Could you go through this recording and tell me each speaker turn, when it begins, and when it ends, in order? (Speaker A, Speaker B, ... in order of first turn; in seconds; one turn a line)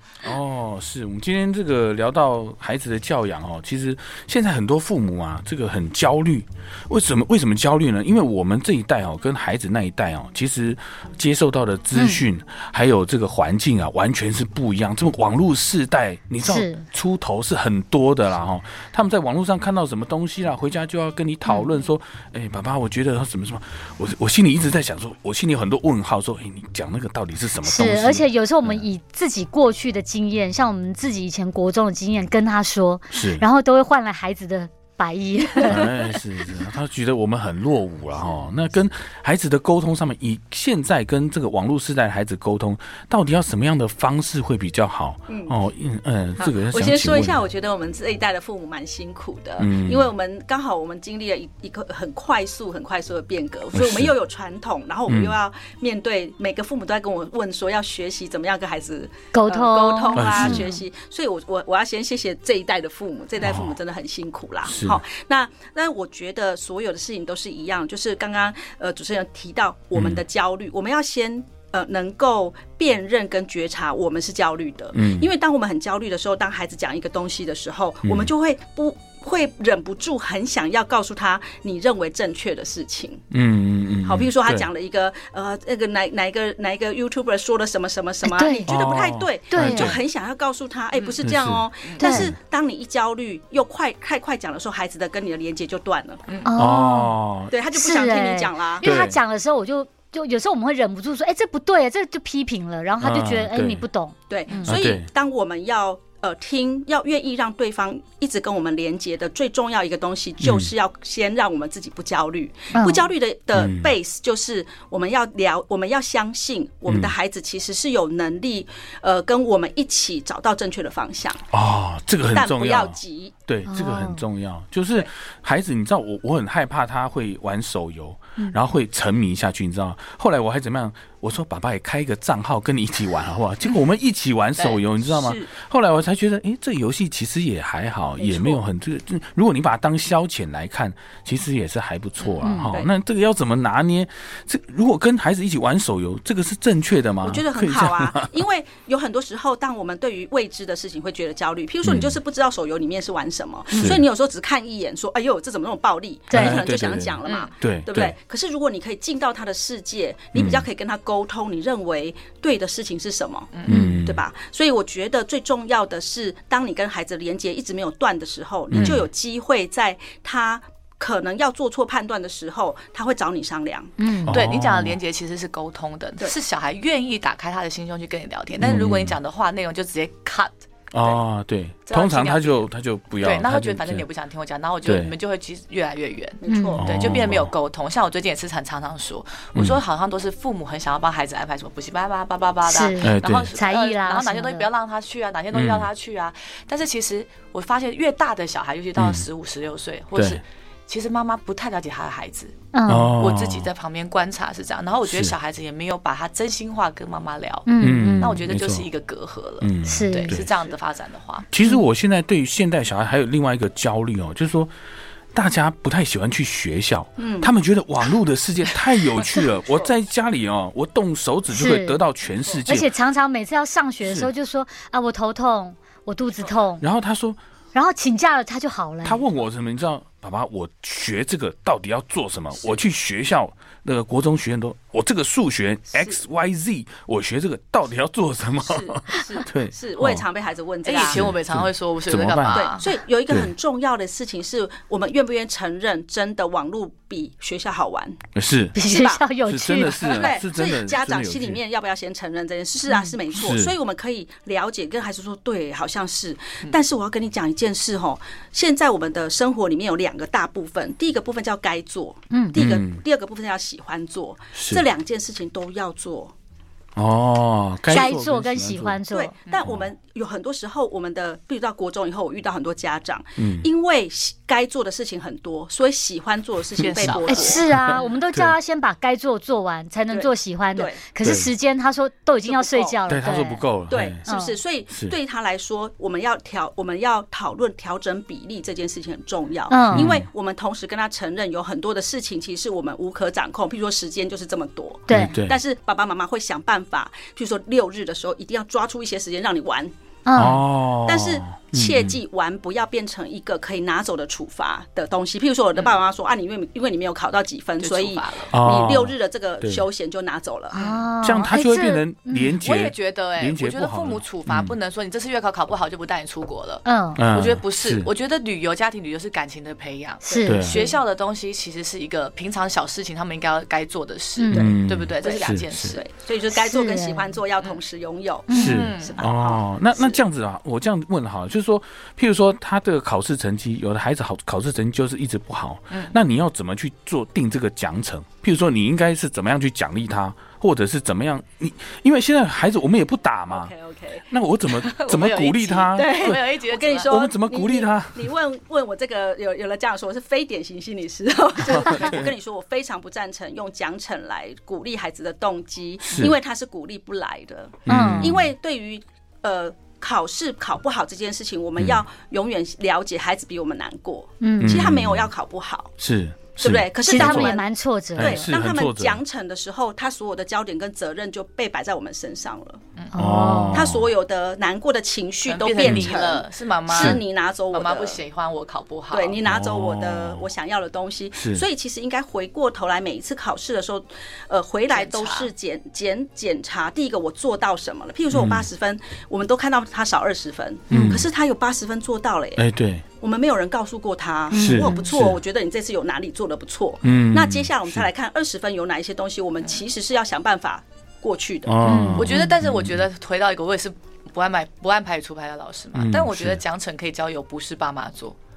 Speaker A: 0.2-28.8
Speaker B: 11.9-12.2
Speaker B: 16.4-16.8
Speaker B: 21.4-21.8
Speaker B: 27.6-35.9
Speaker A: 33.1-33.5
Speaker A: 35.7-47.4
Speaker C: 45.3-45.5
Speaker C: 46.4-83.2
Speaker A: 49.6-50.1
Speaker A: 53.7-54.1
Speaker A: 55.1-55.4
Speaker B: 59.3-60.8
Speaker A: 60.1-60.6
Speaker A: 63.4-63.8
Speaker A: 64.6-65.0
Speaker A: 69.9-70.2
Speaker A: 74.9-75.3
Speaker A: 78.0-78.3
Speaker A: 83.3-84.7
Speaker C: 84.0-96.2
Speaker B: 88.2-88.7
Speaker A: 88.7-90.0
Speaker B: 89.5-90.0
Speaker A: 91.2-92.3
Speaker D: 91.8-92.1
Speaker B: 92.0-92.3
Speaker B: 96.4-97.1
Speaker A: 96.6-97.5
Speaker C: 97.5-98.9
Speaker B: 97.7-104.7
Speaker A: 98.8-99.2
Speaker A: 103.0-103.9
Speaker C: 104.3-121.4
Speaker A: 104.6-105.1
Speaker A: 110.4-110.7
Speaker B: 112.7-113.1
Speaker A: 113.5-113.9
Speaker A: 116.8-117.1
Speaker A: 121.5-148.4
Speaker C: 122.3-123.3
Speaker B: 123.7-124.2
Speaker C: 135.0-135.5
Speaker C: 138.2-138.6
Speaker B: 142.4-142.7
Speaker C: 147.2-163.5
Speaker A: 151.8-152.2
Speaker A: 153.7-154.0
Speaker B: 156.3-156.6
Speaker A: 156.3-158.1
Speaker A: 160.3-160.7
Speaker D: 163.5-163.9
Speaker B: 163.7-164.0
Speaker A: 163.7-164.2
Speaker C: 164.0-174.0
Speaker A: 168.7-169.1
Speaker B: 174.0-174.3
Speaker A: 174.2-175.0
Speaker D: 174.3-181.2
Speaker A: 178.6-179.2
Speaker A: 180.9-184.1
Speaker D: 181.8-182.7
Speaker D: 183.2-202.6
Speaker A: 184.8-185.1
Speaker C: 186.4-186.9
Speaker B: 186.5-186.8
Speaker A: 186.8-187.5
Speaker A: 189.5-189.8
Speaker B: 192.7-194.7
Speaker A: 193.0-193.5
Speaker A: 195.5-195.9
Speaker A: 198.9-199.2
Speaker A: 200.1-200.4
Speaker B: 202.7-203.1
Speaker A: 202.9-203.7
Speaker D: 203.2-211.5
Speaker A: 205.0-205.3
Speaker B: 207.7-208.4
Speaker A: 207.8-208.9
Speaker A: 209.6-210.5
Speaker B: 209.8-210.4
Speaker A: 211.5-214.7
Speaker A: 215.3-222.9
Speaker C: 217.2-217.5
Speaker B: 221.5-222.0
Speaker B: 222.6-226.8
Speaker A: 224.0-224.3
Speaker A: 226.8-227.4
Speaker B: 227.7-229.2
Speaker A: 229.0-240.2
Speaker C: 232.5-232.8
Speaker C: 235.9-236.2
Speaker C: 238.6-241.3
Speaker D: 240.8-242.8
Speaker A: 241.1-242.7
Speaker C: 242.5-248.2
Speaker A: 248.3-248.8
Speaker B: 248.7-250.3
Speaker C: 248.8-249.2
Speaker A: 249.4-251.6
Speaker C: 249.8-266.3
Speaker B: 252.9-253.1
Speaker A: 253.3-253.7
Speaker B: 262.3-262.6
Speaker A: 262.6-263.0
Speaker A: 264.5-264.8
Speaker A: 266.9-269.0
Speaker C: 267.9-268.1
Speaker B: 267.9-269.4
Speaker C: 269.1-277.6
Speaker A: 269.6-269.9
Speaker A: 273.4-273.7
Speaker D: 276.8-278.0
Speaker B: 277.2-283.6
Speaker A: 277.7-278.5
Speaker C: 280.1-281.0
Speaker A: 281.2-281.5
Speaker C: 282.4-283.0
Speaker A: 283.1-284.2
Speaker C: 283.9-299.9
Speaker B: 284.3-284.6
Speaker B: 289.7-290.1
Speaker A: 289.9-290.2
Speaker B: 295.1-295.3
Speaker A: 295.1-295.6
Speaker B: 300.2-300.6
Speaker A: 300.3-302.2
Speaker C: 301.0-310.7
Speaker D: 307.8-308.5
Speaker A: 308.5-309.9
Speaker B: 310.7-312.5
Speaker D: 310.7-311.1
Speaker A: 311.2-314.7
Speaker D: 312.6-326.0
Speaker B: 316.8-317.2
Speaker A: 317.1-318.1
Speaker B: 320.2-320.8
Speaker A: 320.4-320.9
Speaker B: 324.4-324.7
Speaker A: 324.5-326.0
Speaker C: 325.2-330.2
Speaker B: 326.5-327.3
Speaker B: 328.5-328.9
Speaker A: 328.5-343.7
Speaker D: 328.6-329.2
Speaker C: 343.5-344.2
Speaker A: 344.3-346.3
Speaker D: 344.7-347.1
Speaker C: 345.9-365.9
Speaker A: 347.0-348.3
Speaker A: 351.6-352.2
Speaker A: 356.1-356.4
Speaker A: 357.9-358.5
Speaker B: 357.9-358.4
Speaker B: 364.4-364.8
Speaker A: 364.6-365.3
Speaker A: 366.0-367.6
Speaker C: 366.6-372.8
Speaker B: 367.0-368.4
Speaker A: 368.2-369.2
Speaker B: 373.1-373.8
Speaker A: 373.1-374.1
Speaker C: 373.7-378.2
Speaker D: 375.4-379.4
Speaker A: 375.8-376.1
Speaker C: 379.1-392.6
Speaker A: 379.4-380.5
Speaker A: 381.3-381.6
Speaker D: 384.9-385.5
Speaker A: 388.3-388.7
Speaker A: 390.9-391.3
Speaker A: 392.6-393.0
Speaker C: 393.2-401.8
Speaker B: 394.5-395.1
Speaker A: 394.5-395.4
Speaker A: 397.0-398.1
Speaker A: 401.6-403.0
Speaker B: 401.8-402.5
Speaker D: 402.1-408.4
Speaker A: 405.9-406.6